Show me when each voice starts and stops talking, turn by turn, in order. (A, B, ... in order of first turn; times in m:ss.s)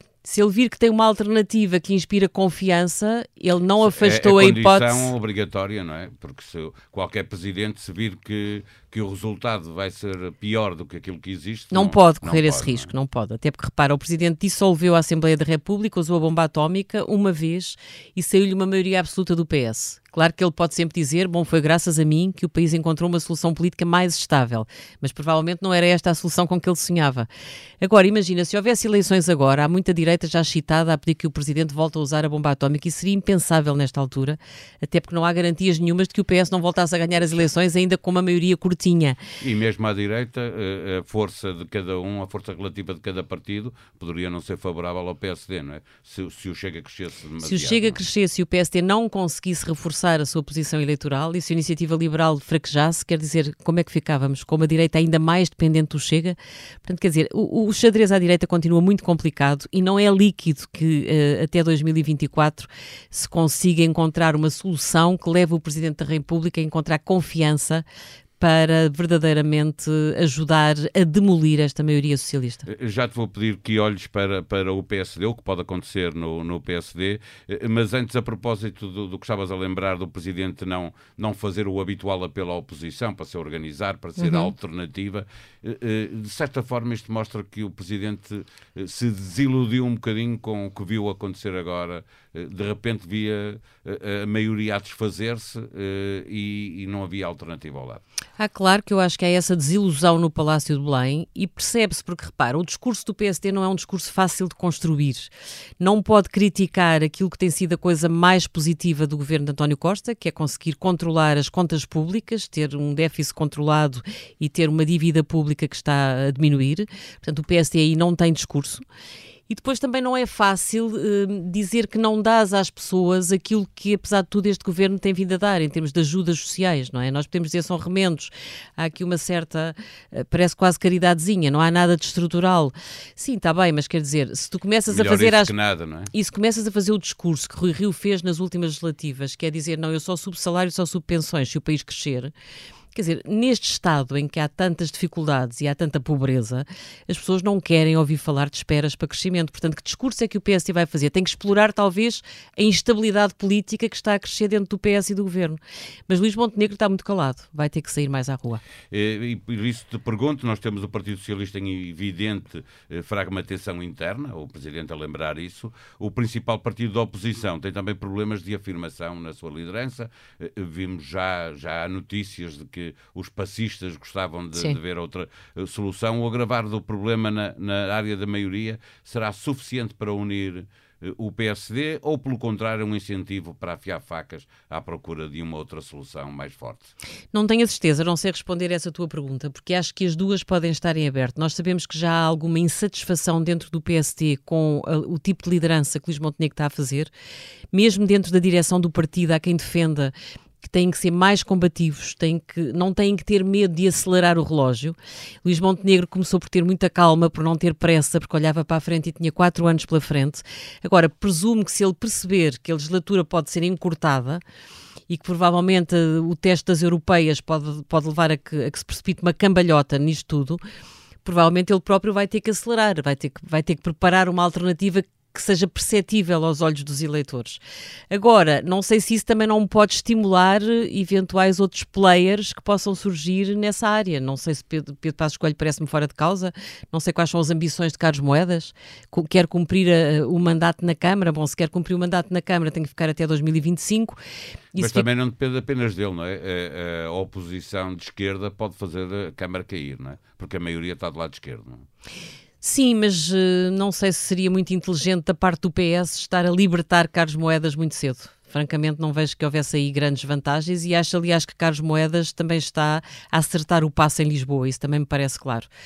0:00.2-0:05.1 A
0:03.8-0:12.9 B
0:11.7-0:27.3 A
0:27.8-0:39.2 A
0:39.4-0:48.0 B
0:47.4-1:07.9 A
1:08.4-1:12.7 A
1:12.7-1:38.0 B
1:24.2-1:24.5 A
1:38.4-1:58.8 A
1:59.5-2:15.5 A
2:14.9-2:16.1 B
2:16.1-2:22.3 A
2:22.9-2:38.6 A
2:38.9-3:06.9 B
3:07.3-3:17.1 A
3:17.7-3:34.4 A
3:35.1-3:40.6 A
3:41.2-4:04.2 A
4:04.7-4:05.1 A
4:04.8-4:11.9 B
4:12.6-4:25.7 A